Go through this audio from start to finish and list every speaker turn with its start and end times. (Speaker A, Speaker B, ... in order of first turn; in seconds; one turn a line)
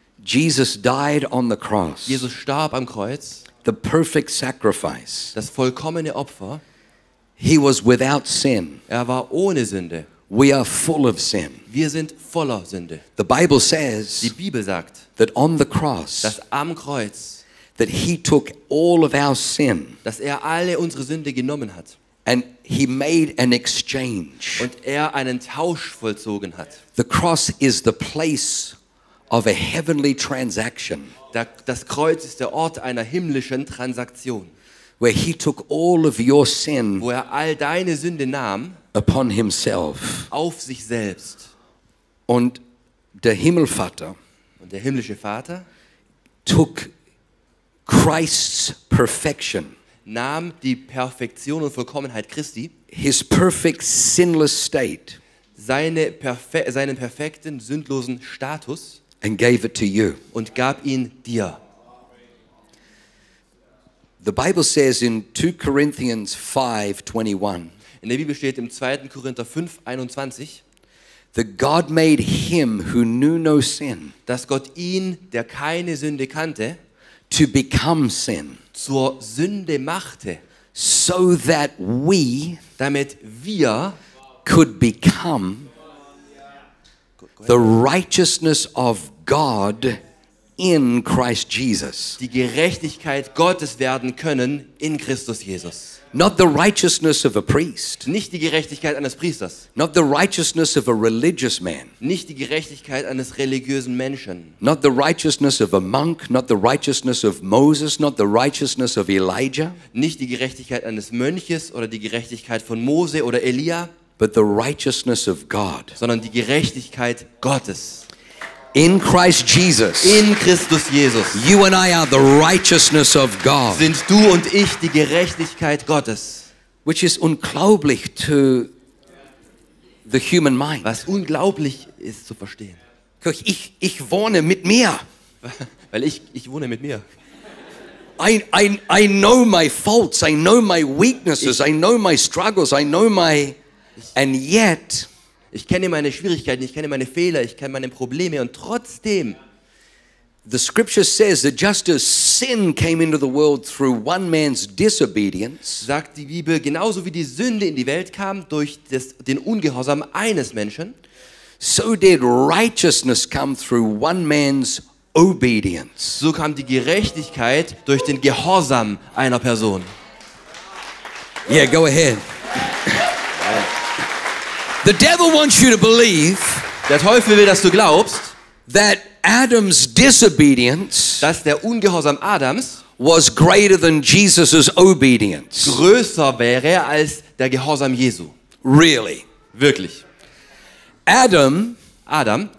Speaker A: 0.2-2.3
Speaker B: 2.1-3.4
Speaker A: 3.6-5.3
Speaker B: 5.3-6.6
Speaker A: 7.4-8.8
Speaker B: 8.9-10.1
Speaker A: 10.3-11.6
Speaker B: 11.7-13.0
Speaker A: 13.2-14.3
Speaker B: 14.2-15.0
Speaker A: 15.2-16.4
Speaker B: 16.2-17.4
Speaker A: 17.8-20.0
Speaker B: 20.1-22.0
Speaker A: 22.3-24.7
Speaker B: 24.6-26.8
Speaker A: 27.0-28.8
Speaker A: 29.3-31.1
Speaker B: 31.3-34.5
Speaker A: 35.0-37.1
Speaker B: 37.0-38.8
Speaker A: 38.9-40.3
Speaker B: 40.3-41.5
Speaker A: 42.3-42.6
Speaker A: 43.2-44.2
Speaker B: 44.6-45.7
Speaker A: 46.5-46.9
Speaker A: 47.9-49.7
Speaker B: 50.1-52.7
Speaker A: 52.9-55.2
Speaker B: 55.6-59.0
Speaker A: 59.2-60.2
Speaker B: 60.3-61.6
Speaker A: 64.2-67.7
Speaker B: 68.0-70.6
Speaker A: 71.3-74.1
Speaker B: 74.3-76.8
Speaker A: 77.3-78.6
Speaker B: 78.7-80.4
Speaker A: 80.8-82.6
Speaker B: 82.8-84.0
Speaker A: 84.4-85.7
Speaker A: 87.5-90.0
Speaker A: 90.6-92.2
Speaker B: 92.2-96.0
Speaker A: 96.1-98.1
Speaker B: 98.1-99.7
Speaker A: 99.8-101.9
Speaker B: 102.0-104.6
Speaker A: 104.6-109.8
Speaker B: 109.9-113.9
Speaker A: 114.2-116.0
Speaker B: 116.0-118.1
Speaker A: 118.7-120.3
Speaker B: 120.0-121.4
Speaker A: 121.3-123.9
Speaker B: 123.7-126.5
Speaker A: 126.8-128.7
Speaker A: 130.1-130.9
Speaker B: 130.8-132.8
Speaker A: 133.2-135.0
Speaker B: 135.4-137.0
Speaker A: 138.2-143.6
Speaker A: 144.2-145.1
Speaker B: 145.5-149.4
Speaker A: 150.5-155.9
Speaker B: 155.8-161.0
Speaker A: 161.6-166.2
Speaker B: 166.2-169.9
Speaker A: 171.5-172.2
Speaker B: 173.4-173.7
Speaker A: 174.8-176.7
Speaker B: 176.9-178.3
Speaker A: 178.7-181.3
Speaker B: 181.2-182.8
Speaker A: 183.0-185.8
Speaker B: 185.6-188.3
Speaker A: 188.6-189.2
Speaker B: 189.5-190.0
Speaker A: 191.1-191.8
Speaker B: 192.1-192.5